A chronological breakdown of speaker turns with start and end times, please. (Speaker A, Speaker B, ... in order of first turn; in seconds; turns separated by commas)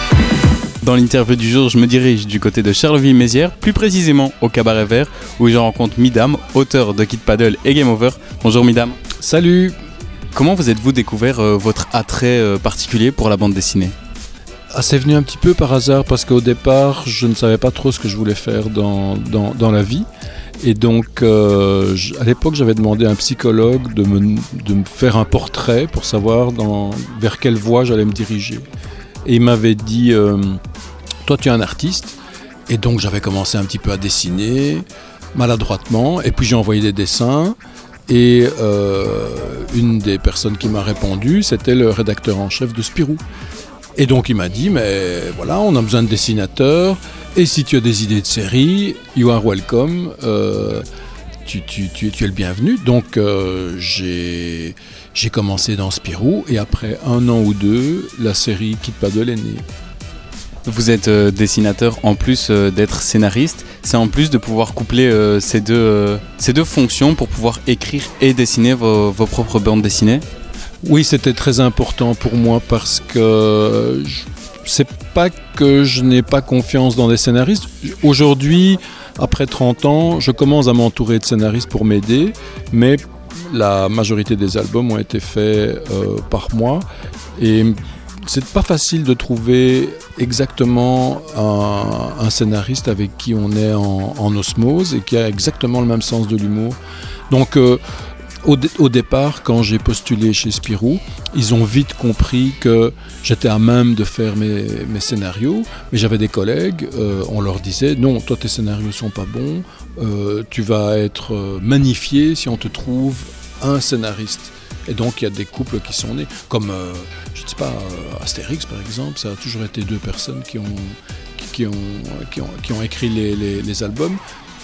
Speaker A: 0.8-9.0, Speaker B: 9.2-9.8, Speaker A: 10.3-13.9, Speaker B: 14.7-20.1, Speaker B: 20.6-28.6, Speaker B: 29.2-30.6, Speaker B: 31.2-37.6, Speaker B: 38.1-43.2, Speaker B: 44.0-50.8, Speaker B: 51.5-59.6, Speaker A: 60.6-70.2, Speaker B: 70.8-86.8, Speaker B: 87.4-96.8, Speaker B: 97.3-97.8, Speaker B: 98.4-124.2